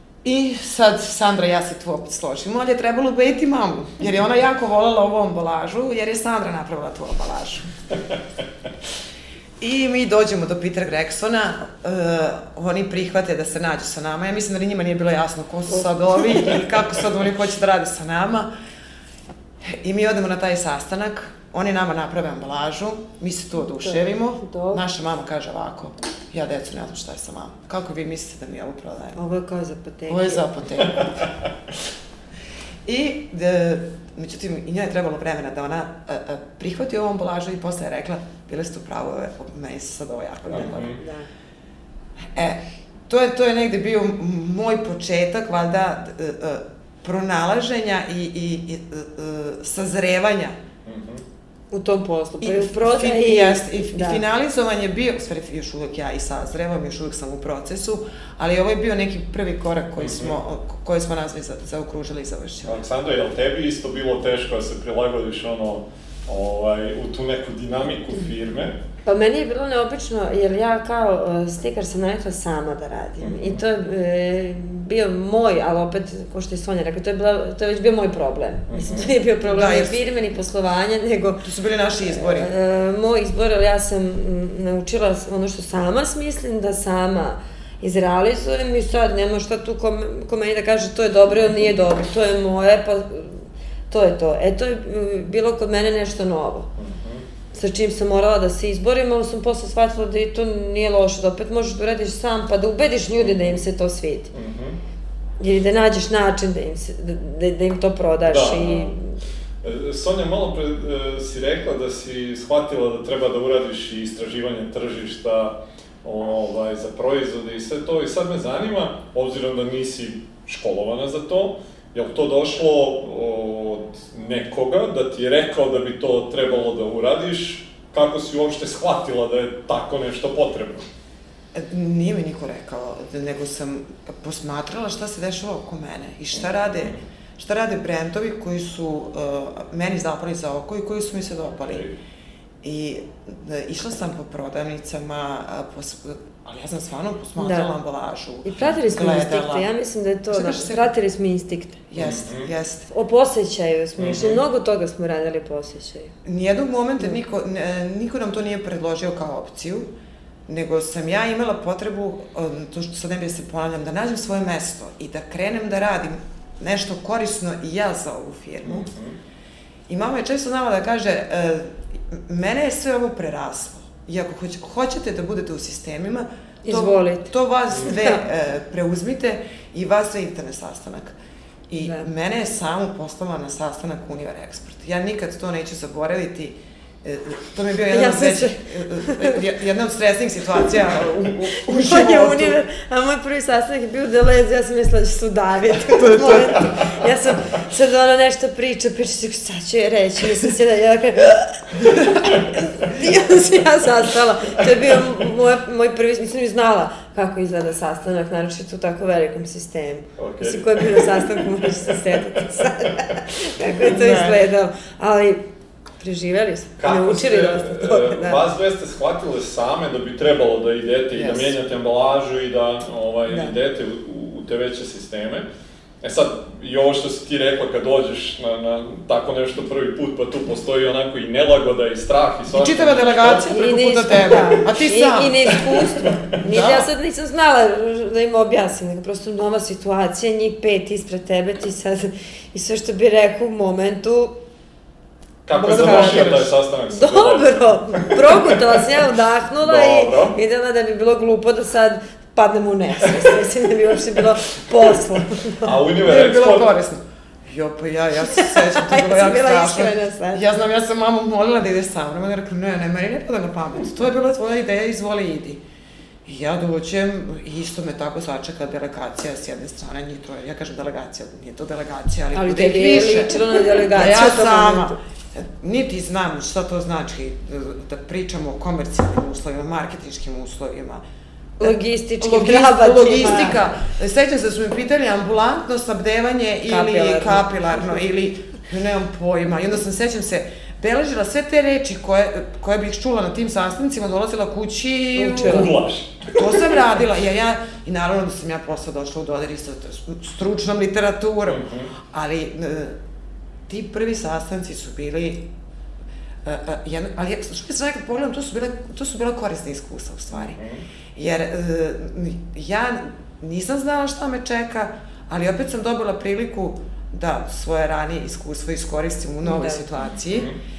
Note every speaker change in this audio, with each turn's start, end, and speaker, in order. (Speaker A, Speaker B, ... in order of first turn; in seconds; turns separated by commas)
Speaker A: 0.2-7.7, Speaker A: 9.6-18.5, Speaker A: 19.6-29.2, Speaker B: 23.8-24.8, Speaker B: 29.1-30.4, Speaker A: 30.1-31.2, Speaker A: 32.8-41.0, Speaker C: 40.5-41.0, Speaker B: 40.8-41.3, Speaker A: 42.3-50.6, Speaker C: 50.8-51.2, Speaker B: 51.7-54.2, Speaker A: 52.4-62.8, Speaker C: 60.0-60.4, Speaker C: 62.6-68.8, Speaker B: 69.0-81.4, Speaker C: 73.2-73.6, Speaker C: 78.7-79.1, Speaker A: 79.4-80.0, Speaker A: 81.4-82.5, Speaker B: 82.0-96.7, Speaker C: 96.8-97.2, Speaker B: 97.5-104.3, Speaker C: 103.2-103.6, Speaker C: 104.3-104.8, Speaker B: 105.4-109.1, Speaker C: 108.2-108.9, Speaker C: 109.6-130.8, Speaker A: 131.5-141.8, Speaker C: 141.6-142.0, Speaker A: 142.6-149.7, Speaker B: 147.4-147.8, Speaker B: 148.4-151.8, Speaker A: 150.3-150.9, Speaker A: 151.9-152.9, Speaker C: 152.0-152.5, Speaker B: 152.9-156.1, Speaker C: 154.0-154.4, Speaker A: 156.2-159.9, Speaker A: 160.5-168.9, Speaker C: 168.6-169.1, Speaker A: 169.9-181.2, Speaker B: 176.6-177.3, Speaker B: 177.8-178.2, Speaker A: 181.7-192.6, Speaker B: 181.8-182.1, Speaker B: 187.9-189.4, Speaker B: 191.6-215.4, Speaker A: 195.9-196.6, Speaker C: 210.2-211.4, Speaker A: 213.8-214.4, Speaker B: 216.0-218.4, Speaker C: 216.8-225.4, Speaker A: 221.1-221.6, Speaker B: 223.3-223.5, Speaker C: 226.0-233.4, Speaker A: 232.5-236.9, Speaker B: 233.4-244.4, Speaker C: 245.4-248.9, Speaker B: 245.5-255.7, Speaker A: 245.7-246.3, Speaker C: 249.6-250.4, Speaker C: 255.5-256.7, Speaker A: 256.0-265.6, Speaker B: 258.3-260.4, Speaker A: 266.2-281.0, Speaker B: 272.3-274.9, Speaker A: 281.6-295.8, Speaker B: 281.6-283.6, Speaker B: 286.6-287.5, Speaker B: 295.1-295.7, Speaker C: 295.4-296.8, Speaker A: 296.3-303.0, Speaker C: 301.5-301.9, Speaker A: 303.7-305.5, Speaker A: 306.4-310.6, Speaker C: 310.3-310.8, Speaker A: 311.1-320.5, Speaker B: 319.4-319.9, Speaker C: 320.3-320.6